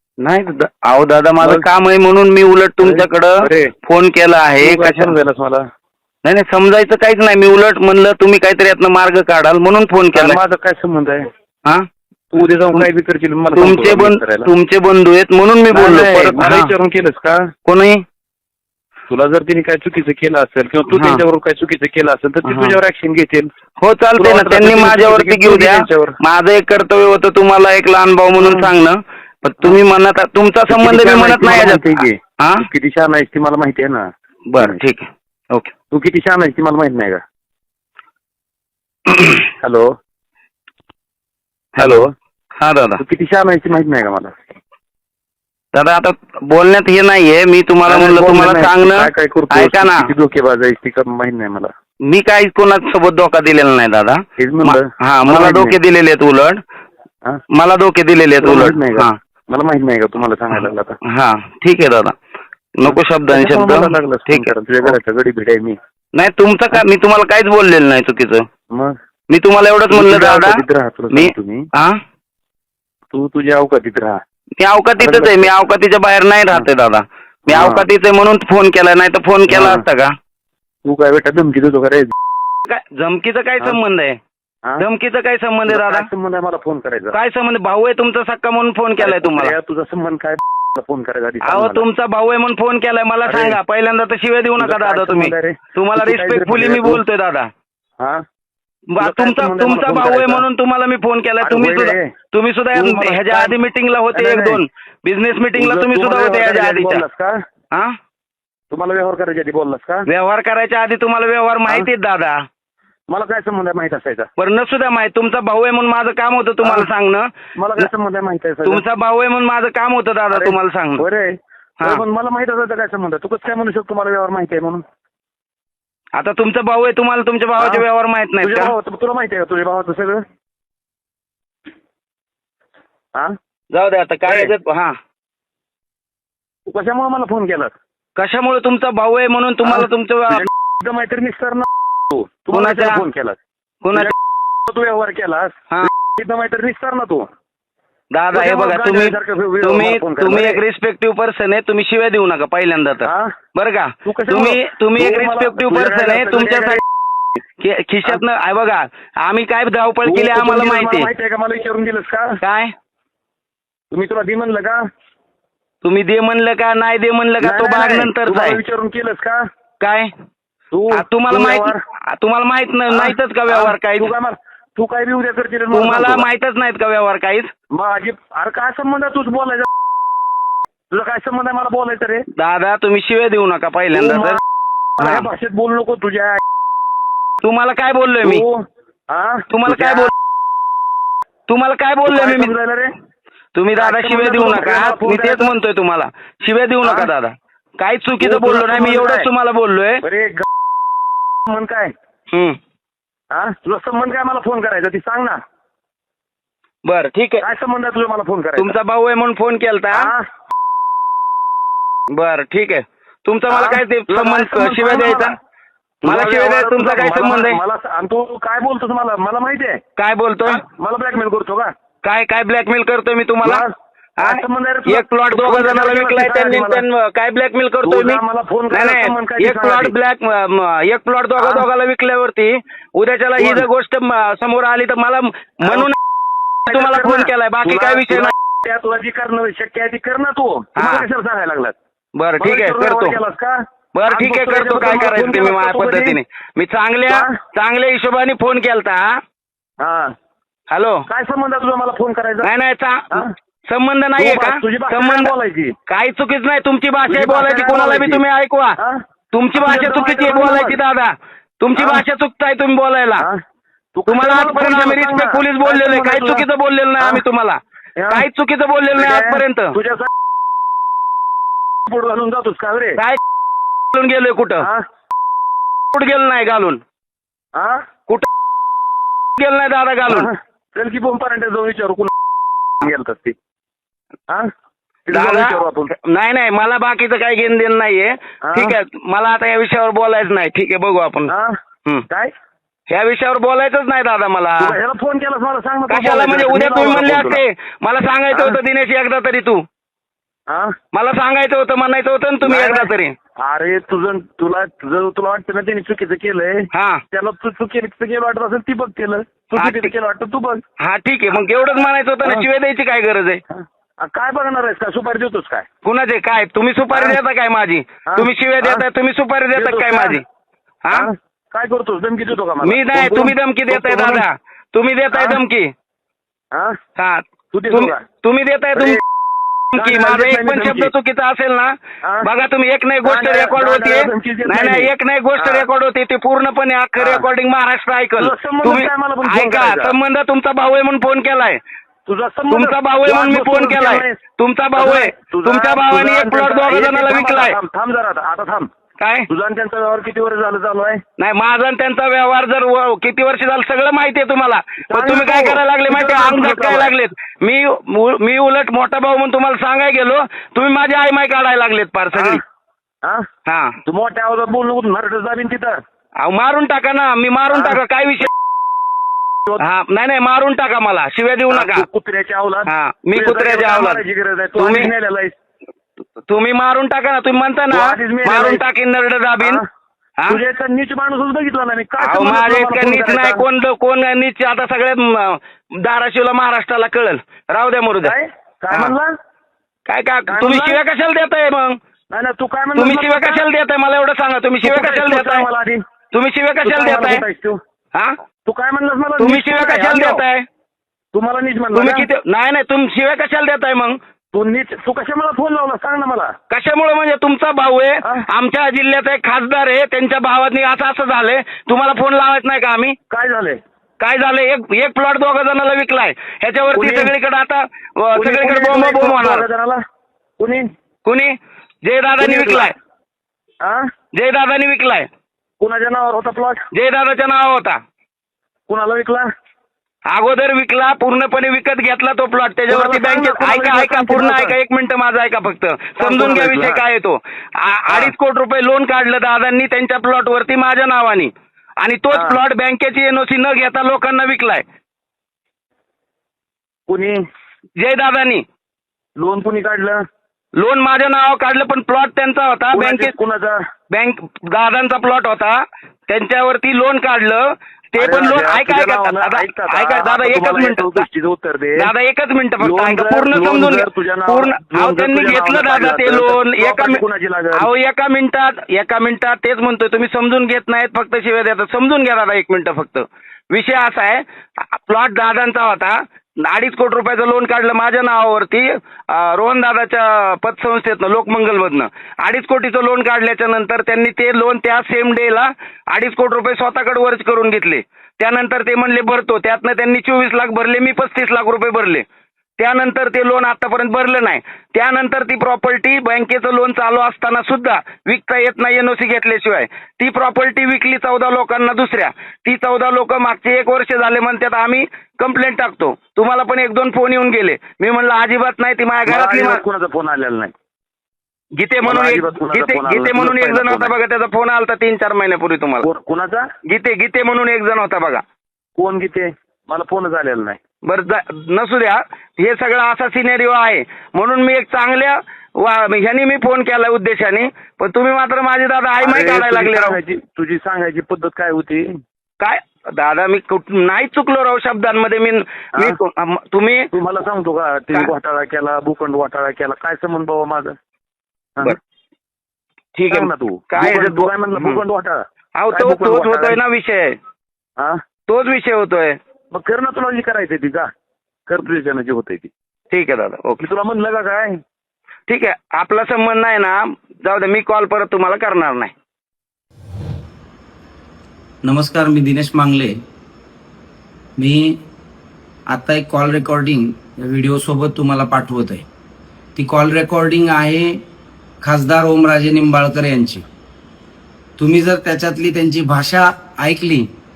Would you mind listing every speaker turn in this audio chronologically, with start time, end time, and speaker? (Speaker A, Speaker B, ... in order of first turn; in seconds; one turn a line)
Speaker A: 0.2-5.1
Speaker B: 1.4-1.6
Speaker B: 2.8-3.7
Speaker B: 4.6-5.6
Speaker A: 6.2-10.4
Speaker B: 10.1-11.3
Speaker B: 12.3-14.5
Speaker A: 13.6-16.7
Speaker B: 15.7-17.5
Speaker A: 17.7-18.0
Speaker B: 19.1-23.5
Speaker A: 20.9-21.2
Speaker A: 22.4-22.8
Speaker A: 23.8-32.6
Speaker B: 24.2-26.2
Speaker B: 28.4-28.7
Speaker B: 30.7-34.1
Speaker A: 34.5-35.7
Speaker B: 35.9-37.2
Speaker B: 39.6-39.9
Speaker A: 41.8-42.0
Speaker B: 41.8-42.1
Speaker A: 42.6-43.0
Speaker B: 43.0-44.4
Speaker A: 45.7-50.1
Speaker B: 47.9-51.7
Speaker A: 52.0-56.6
Speaker B: 54.4-55.8
Speaker A: 57.5-59.2
Speaker B: 58.4-61.0
Speaker A: 61.0-62.1
Speaker A: 62.8-64.9
Speaker B: 62.8-65.8
Speaker A: 66.1-68.5
Speaker A: 69.3-72.0
Speaker B: 69.9-71.7
Speaker B: 73.1-74.2
Speaker A: 74.6-80.1
Speaker B: 75.0-75.5
Speaker B: 77.5-77.9
Speaker B: 79.5-79.9
Speaker B: 80.8-82.1
Speaker A: 82.7-84.2
Speaker A: 84.8-86.1
Speaker B: 85.7-87.2
Speaker A: 87.1-89.5
Speaker B: 89.0-91.9
Speaker A: 91.4-97.5
Speaker B: 93.2-93.6
Speaker B: 94.6-97.0
Speaker A: 98.9-107.0
Speaker B: 99.0-100.4
Speaker B: 101.4-102.1
Speaker B: 102.7-103.6
Speaker B: 104.1-104.6
Speaker B: 105.5-107.4
Speaker B: 108.7-110.1
Speaker A: 110.1-112.4
Speaker B: 113.1-114.3
Speaker A: 114.4-117.9
Speaker B: 116.6-116.9
Speaker B: 117.6-118.8
Speaker A: 118.6-121.0
Speaker B: 120.3-124.8
Speaker A: 126.1-128.7
Speaker B: 127.6-127.8
Speaker B: 128.4-130.2
Speaker A: 133.7-134.9
Speaker B: 134.3-134.5
Speaker B: 136.7-137.7
Speaker A: 138.2-140.4
Speaker B: 139.6-143.4
Speaker A: 142.5-143.0
Speaker A: 143.8-144.1
Speaker B: 144.7-147.3
Speaker A: 148.1-156.8
Speaker B: 148.3-150.6
Speaker B: 153.0-153.3
Speaker B: 154.0-156.8
Speaker A: 157.6-161.1
Speaker B: 160.0-162.3
Speaker A: 162.4-162.7
Speaker B: 163.9-164.8
Speaker A: 165.8-168.6
Speaker B: 167.4-169.4
Speaker A: 169.8-170.1
Speaker B: 170.7-171.8
Speaker A: 170.9-174.1
Speaker B: 172.9-176.3
Speaker A: 175.7-177.5
Speaker B: 177.7-179.7
Speaker B: 180.9-182.3
Speaker A: 182.3-184.4
Speaker B: 183.9-184.4
Speaker B: 185.0-186.4
Speaker A: 185.0-185.3
Speaker A: 187.4-188.4
Speaker B: 188.2-190.1
Speaker A: 189.5-190.1
Speaker A: 191.5-192.5
Speaker B: 192.1-192.9
Speaker A: 193.5-200.0
Speaker B: 193.7-195.5
Speaker B: 196.8-197.1
Speaker B: 198.2-199.3
Speaker B: 200.0-200.5
Speaker B: 201.4-201.9
Speaker A: 202.3-202.6
Speaker B: 203.3-205.4
Speaker A: 206.8-207.4
Speaker B: 207.4-208.8
Speaker A: 208.6-210.1
Speaker B: 209.9-210.2
Speaker A: 212.1-215.3
Speaker B: 213.5-215.3
Speaker B: 216.0-219.8
Speaker A: 216.0-217.6
Speaker A: 220.0-220.6
Speaker B: 220.4-221.7
Speaker A: 222.0-223.6
Speaker B: 223.4-226.8
Speaker A: 224.2-235.9
Speaker B: 227.8-229.9
Speaker B: 231.4-231.6
Speaker B: 233.4-233.7
Speaker B: 235.6-235.9
Speaker A: 236.7-238.3
Speaker B: 236.7-241.8
Speaker A: 240.8-241.1
Speaker A: 242.2-243.2
Speaker B: 242.4-246.2
Speaker A: 243.9-249.2
Speaker B: 247.1-247.3
Speaker B: 249.8-250.1
Speaker A: 250.7-251.0
Speaker B: 251.1-252.5
Speaker A: 252.4-255.3
Speaker B: 254.2-255.7
Speaker A: 255.9-258.8
Speaker B: 257.1-258.2
Speaker A: 259.3-263.2
Speaker B: 259.5-260.8
Speaker B: 261.8-262.1
Speaker B: 264.0-266.5
Speaker A: 264.1-267.6
Speaker B: 268.0-268.2
Speaker A: 268.1-269.7
Speaker B: 268.9-270.1
Speaker B: 271.9-273.0
Speaker A: 273.9-274.7
Speaker A: 275.9-276.8
Speaker B: 277.6-277.8
Speaker A: 279.4-280.3
Speaker B: 280.1-282.1
Speaker B: 282.8-283.4
Speaker B: 285.1-285.9
Speaker A: 285.1-291.3
Speaker B: 288.5-288.8
Speaker B: 291.3-291.6
Speaker A: 292.9-294.8
Speaker B: 294.6-297.4
Speaker A: 295.9-299.6
Speaker B: 298.3-298.6
Speaker B: 300.5-300.8
Speaker A: 300.9-303.1
Speaker B: 302.4-310.6
Speaker A: 306.7-307.0
Speaker A: 309.6-309.9
Speaker A: 310.8-313.4
Speaker B: 313.5-315.7
Speaker A: 315.8-320.2
Speaker B: 316.9-317.2
Speaker B: 318.1-318.8
Speaker B: 319.6-320.2
Speaker B: 320.9-324.3
Speaker A: 322.6-325.7
Speaker B: 325.1-325.4
Speaker A: 327.0-329.0
Speaker B: 327.5-328.0
Speaker A: 329.7-341.6
Speaker B: 329.8-330.9
Speaker B: 332.0-332.3
Speaker B: 333.0-335.7
Speaker B: 337.0-337.2
Speaker B: 338.2-340.0
Speaker B: 342.1-344.2
Speaker A: 342.5-347.6
Speaker B: 344.8-348.7
Speaker A: 349.0-349.3
Speaker B: 349.3-351.0
Speaker A: 351.2-362.4
Speaker B: 354.9-356.9
Speaker B: 362.1-362.4
Speaker A: 363.5-363.8
Speaker B: 363.9-365.8
Speaker A: 366.2-368.3
Speaker B: 367.5-367.8
Speaker A: 369.6-371.9
Speaker B: 371.5-375.4
Speaker A: 372.7-374.0
Speaker A: 374.6-374.9
Speaker A: 376.3-379.6
Speaker B: 377.7-378.6
Speaker B: 380.3-383.4
Speaker A: 382.0-388.1
Speaker B: 388.0-389.1
Speaker A: 389.9-391.8
Speaker B: 390.3-390.8
Speaker B: 392.1-393.4
Speaker A: 392.8-395.5
Speaker B: 394.6-395.8
Speaker A: 396.1-397.2
Speaker B: 396.6-397.6
Speaker B: 398.4-400.2
Speaker A: 399.2-400.5
Speaker B: 401.1-402.1
Speaker A: 401.7-404.0
Speaker B: 404.3-406.3
Speaker A: 406.5-413.0
Speaker B: 413.1-413.6
Speaker A: 414.0-419.5
Speaker B: 416.7-417.1
Speaker B: 418.1-419.8
Speaker B: 420.4-420.6
Speaker A: 421.1-422.7
Speaker B: 422.2-422.7
Speaker A: 424.1-425.1
Speaker B: 425.6-426.6
Speaker A: 426.7-427.8
Speaker B: 428.7-429.3
Speaker A: 430.1-444.6
Speaker B: 432.7-434.6
Speaker B: 436.0-436.8
Speaker B: 437.9-438.1
Speaker B: 442.1-442.4
Speaker B: 446.9-447.2
Speaker A: 447.8-448.4
Speaker B: 449.2-450.0
Speaker A: 450.6-453.1
Speaker B: 452.7-453.6
Speaker A: 453.9-461.1
Speaker B: 458.0-461.9
Speaker A: 461.8-467.0
Speaker B: 462.6-467.7
Speaker A: 467.5-492.1
Speaker A: 492.6-509.6
Speaker B: 509.1-510.5
Speaker A: 511.6-515.9
Speaker B: 511.8-513.9
Speaker B: 515.8-516.5
Speaker A: 516.6-518.2
Speaker B: 518.8-520.6
Speaker A: 520.8-530.0
Speaker B: 529.0-531.9
Speaker A: 532.4-536.9
Speaker B: 536.9-540.8
Speaker A: 542.9-544.8
Speaker B: 543.1-546.6
Speaker A: 545.5-547.2
Speaker A: 548.3-549.2
Speaker B: 549.5-550.9
Speaker B: 551.5-552.5
Speaker A: 552.9-553.6
Speaker B: 553.6-554.6
Speaker A: 555.3-558.9
Speaker C: 561.6-563.0
Speaker C: 564.4-564.8
Speaker C: 565.7-568.8
Speaker C: 569.5-571.0
Speaker C: 571.6-573.4
Speaker C: 574.6-577.1